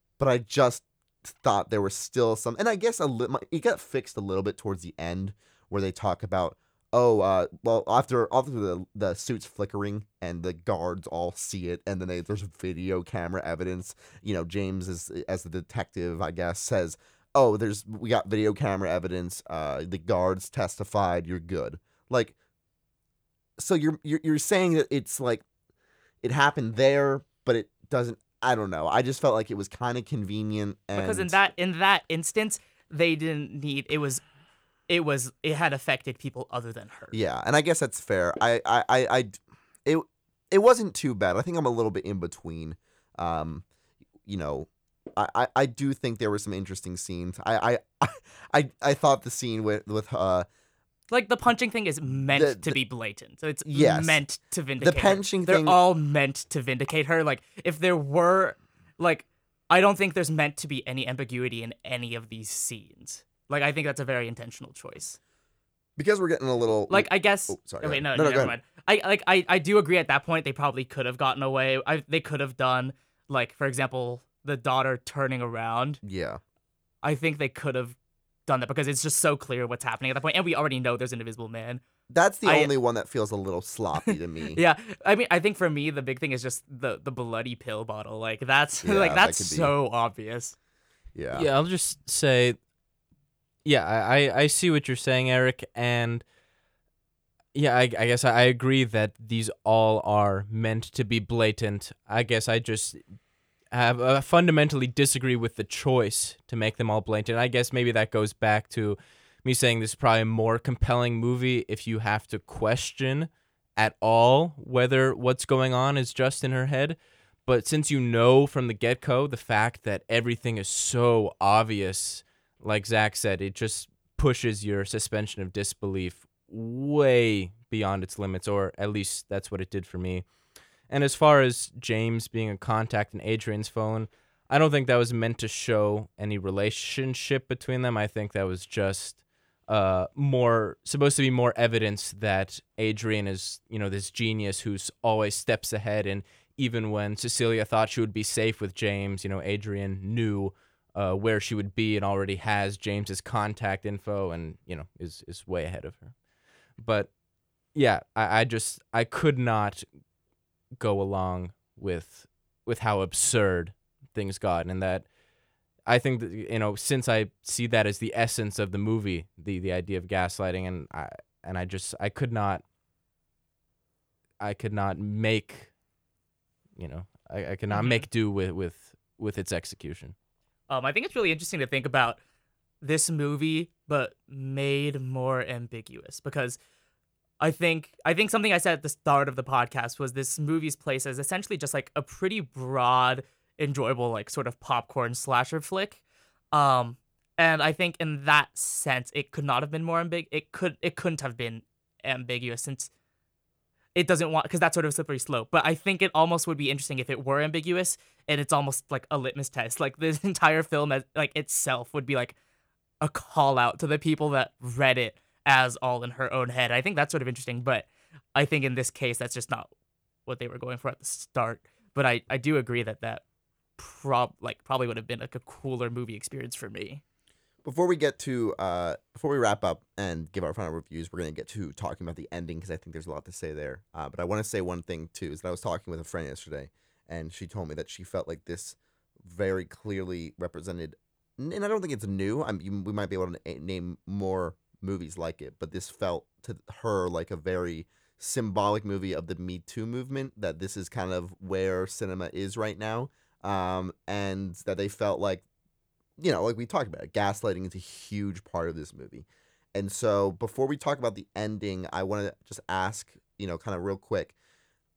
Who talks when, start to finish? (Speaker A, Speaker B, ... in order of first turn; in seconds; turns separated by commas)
Speaker A: 0.2-22.3, Speaker A: 23.6-25.4, Speaker A: 26.2-31.4, Speaker B: 30.9-34.2, Speaker B: 34.9-37.1, Speaker A: 37.1-43.6, Speaker A: 44.3-50.5, Speaker B: 51.1-65.2, Speaker A: 52.3-52.8, Speaker A: 53.6-54.2, Speaker A: 54.8-55.8, Speaker A: 66.0-68.6, Speaker B: 66.9-76.0, Speaker A: 76.0-76.4, Speaker B: 77.0-78.0, Speaker B: 78.5-81.8, Speaker A: 82.1-84.6, Speaker B: 82.5-82.7, Speaker B: 84.1-90.5, Speaker A: 88.8-89.7, Speaker A: 91.1-91.5, Speaker C: 91.3-92.6, Speaker C: 93.6-96.2, Speaker C: 97.5-103.0, Speaker C: 103.7-130.2, Speaker C: 130.9-156.2, Speaker C: 156.8-157.1, Speaker C: 157.7-159.9, Speaker C: 160.8-165.1, Speaker C: 165.8-172.6, Speaker C: 174.4-175.7, Speaker C: 176.8-180.1, Speaker B: 177.7-178.0, Speaker B: 180.7-182.2, Speaker B: 182.8-186.6, Speaker B: 187.4-202.9, Speaker B: 203.9-212.3, Speaker B: 213.0-219.7, Speaker B: 220.2-223.2, Speaker B: 223.8-227.0, Speaker A: 227.6-255.4, Speaker A: 256.2-264.3